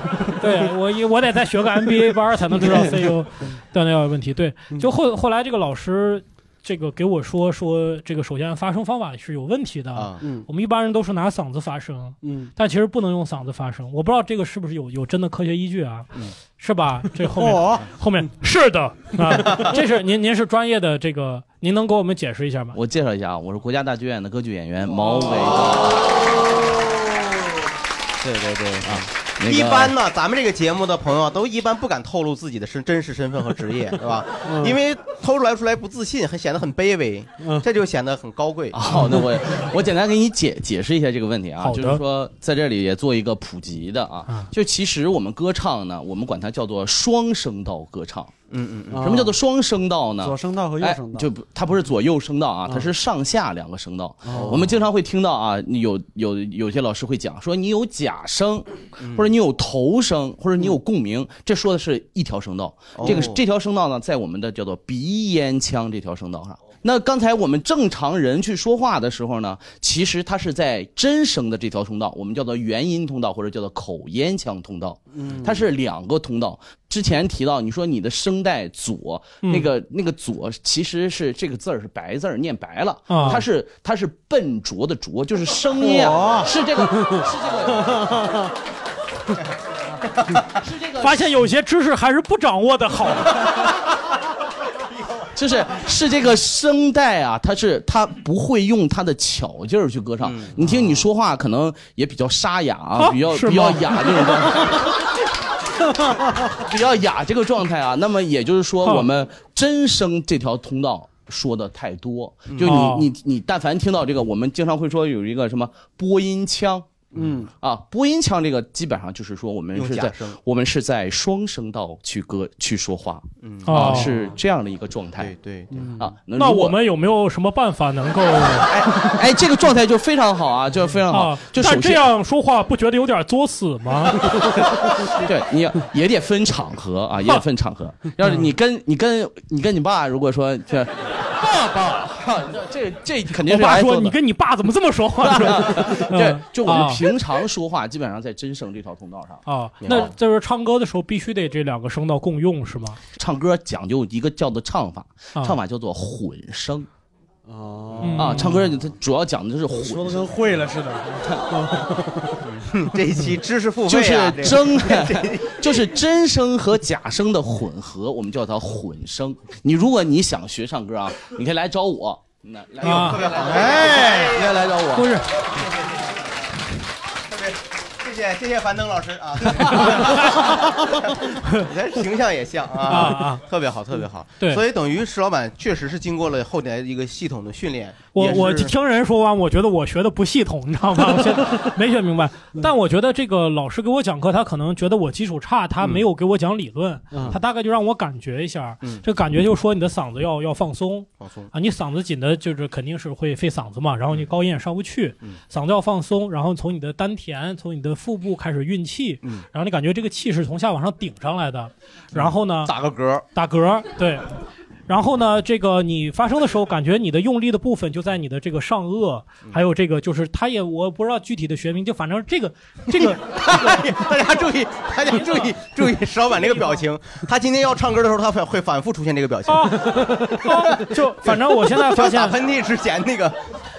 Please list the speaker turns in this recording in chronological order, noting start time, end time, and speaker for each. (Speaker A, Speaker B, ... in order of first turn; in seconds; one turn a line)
Speaker A: 0.4-22.8
Speaker B: 2.6-3.0
Speaker C: 9.9-10.2
Speaker B: 10.2-10.5
Speaker B: 12.2-12.5
Speaker B: 17.4-17.9
Speaker D: 22.7-25.9
Speaker C: 28.2-38.9
Speaker D: 28.8-29.9
Speaker B: 34.4-34.8
Speaker B: 37.4-37.7
Speaker D: 38.7-48.3
Speaker A: 41.6-42.0
Speaker C: 48.5-49.1
Speaker B: 48.9-49.3
Speaker D: 49.0-88.2
Speaker B: 50.2-51.2
Speaker B: 54.2-54.6
Speaker C: 54.3-54.7
Speaker C: 59.0-59.3
Speaker C: 62.9-63.4
Speaker B: 75.1-75.6
Speaker A: 79.4-79.7
Speaker A: 83.1-83.4
Speaker B: 85.8-87.2
Speaker B: 87.9-88.3
Speaker A: 91.0-93.4
Speaker D: 95.3-104.8
Speaker C: 100.2-101.0
Speaker A: 103.0-104.4
Speaker D: 106.5-117.0
Speaker C: 112.5-112.8
Speaker A: 112.6-113.1
Speaker B: 117.1-117.5
Speaker D: 117.6-125.3
Speaker C: 119.7-120.4
Speaker C: 123.4-124.2
Speaker A: 123.7-124.1
Speaker C: 125.2-125.9
Speaker B: 125.7-126.0
Speaker D: 126.0-126.8
Speaker A: 126.3-128.7
Speaker D: 128.6-132.1
Speaker A: 131.1-134.3
Speaker D: 135.2-144.2
Speaker A: 143.4-147.0
Speaker D: 145.2-150.0
Speaker A: 149.4-153.0
Speaker D: 153.2-156.9
Speaker B: 157.4-158.7
Speaker A: 158.0-158.5
Speaker D: 158.1-160.3
Speaker B: 159.8-162.7
Speaker C: 162.7-165.6
Speaker D: 163.9-175.1
Speaker A: 172.8-173.2
Speaker C: 172.8-174.6
Speaker A: 174.9-175.2
Speaker C: 177.3-188.7
Speaker A: 179.7-180.3
Speaker A: 182.9-183.4
Speaker A: 188.1-212.7
Speaker B: 197.1-197.4
Speaker C: 201.2-201.5
Speaker C: 212.1-213.2
Speaker A: 213.3-214.2
Speaker A: 214.9-223.8
Speaker C: 222.9-233.4
Speaker A: 229.5-232.4